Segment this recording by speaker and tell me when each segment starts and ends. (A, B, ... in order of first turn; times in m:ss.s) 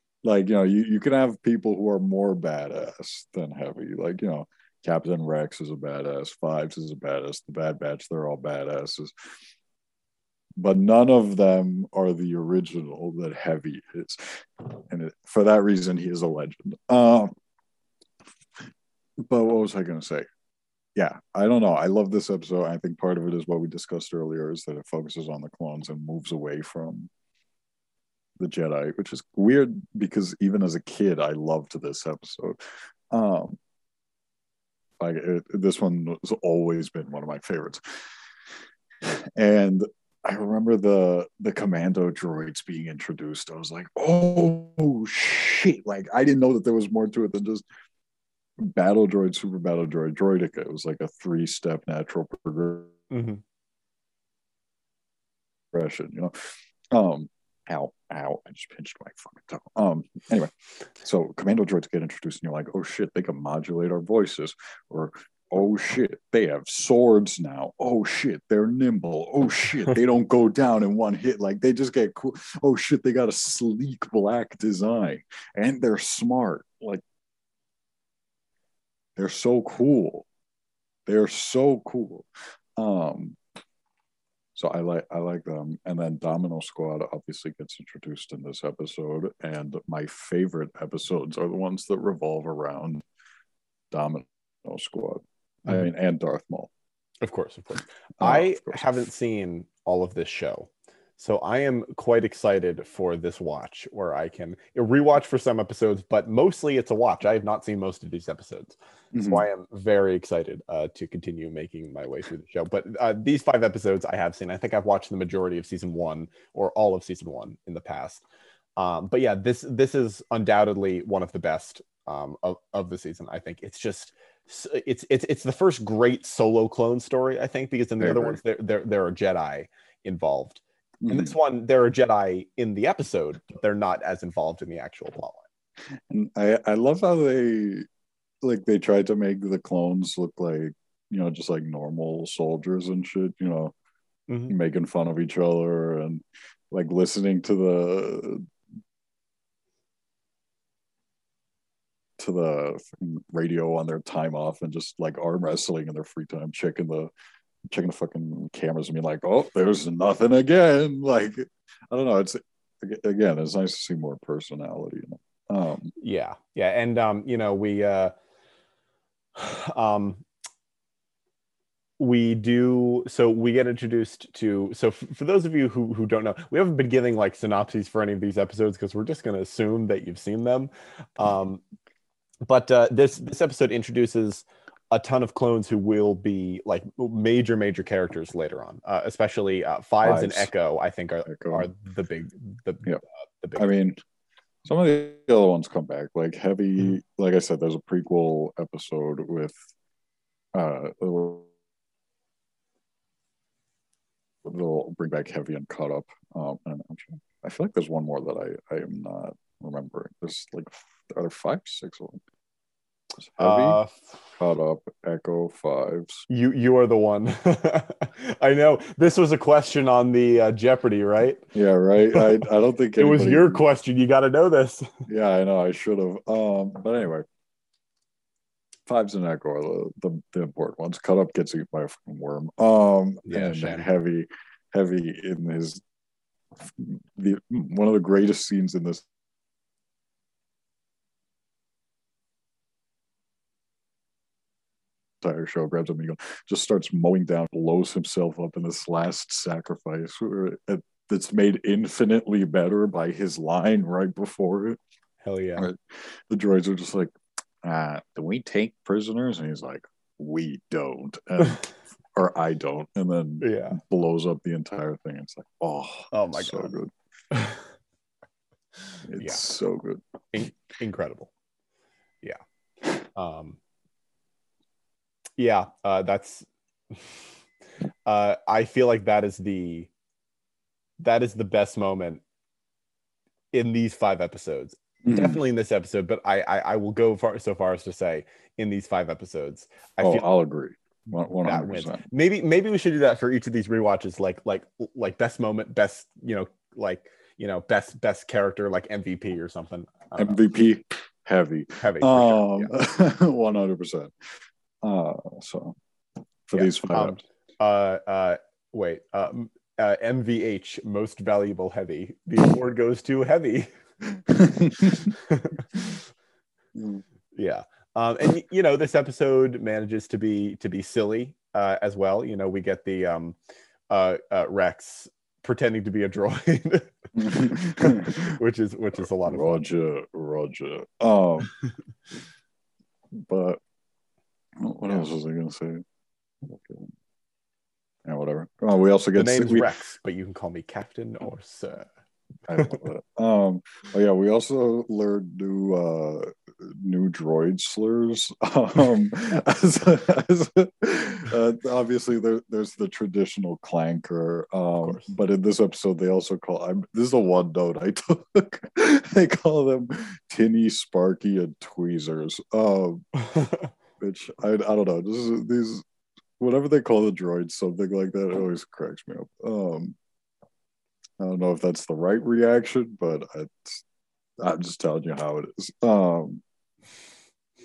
0:00.2-0:09.3 A
0:10.6-0:17.3 A
0:19.2-0:20.3 A
0:21.0-0:27.1 A
0:28.4-0:32.6 A
0:33.1-0:33.6 A
0:35.0-0:38.0 A
0:39.0-0:47.6 A
0:48.6-0:52.9 A
0:53.1-0:53.4 B
0:55.7-1:17.0 A
1:19.2-1:20.3 A
1:21.1-1:23.4 A
1:24.6-1:33.0 A
1:33.9-1:36.7 A
1:37.2-1:58.2 B
1:38.2-1:38.9 A
1:49.1-1:49.5 A
1:58.8-2:15.4 B
2:08.0-2:08.4 A
2:11.0-2:11.4 A
2:16.1-2:17.9 A
2:18.4-2:23.7 A
2:24.3-2:24.6 B
2:24.5-2:28.4 A
2:32.2-2:37.1 A
2:37.7-2:45.9 A
2:46.0-2:48.1 B
2:49.4-2:50.2 B
2:52.0-3:01.6 B
3:02.4-3:13.7 B
3:10.0-3:10.5 A
3:11.3-3:11.7 A
3:13.6-3:14.0 A
3:14.6-3:19.6 A
3:20.5-3:21.5 A
3:24.4-3:32.2 A
3:33.2-3:33.8 A
3:33.4-3:34.1 B
3:34.4-3:36.3 A
3:36.3-3:41.5 B
3:41.5-3:43.6 A
3:42.1-3:42.4 B
3:43.0-3:44.9 B
3:45.1-3:47.2 A
3:48.9-3:55.8 A
3:53.3-3:53.9 B
3:56.6-3:59.0 A
4:05.2-4:14.8 A
4:15.2-4:15.7 B
4:15.6-4:17.1 A
4:17.6-4:26.9 A
4:23.4-4:23.8 B
4:26.1-4:26.7 B
4:27.3-4:27.6 B
4:29.1-4:30.0 A
4:30.3-4:31.3 B
4:33.2-4:33.6 B
4:35.4-4:37.1 B
4:38.1-4:39.9 B
4:41.0-4:42.2 B
4:43.5-4:50.3 B
4:45.0-4:45.4 A
4:50.0-4:52.0 A
4:51.4-5:00.4 B
5:00.2-5:04.1 A
5:01.8-5:02.7 B
5:04.8-5:05.8 A
5:06.5-5:07.2 A
5:06.5-5:13.7 B
5:14.3-5:15.1 A
5:15.1-5:15.8 B
5:16.8-5:17.0 A
5:17.3-5:23.4 B
5:23.9-5:29.6 B
5:27.2-5:28.4 A
5:29.3-5:31.5 A
5:33.1-5:33.6 A
5:34.6-5:35.8 A
5:36.4-5:36.9 A
5:38.0-5:39.7 A
5:39.2-5:41.9 B
5:42.5-6:03.1 A
6:03.2-6:03.7 B
6:04.0-6:05.8 A
6:06.4-6:10.0 A
6:11.2-6:13.8 A
6:14.4-6:16.4 A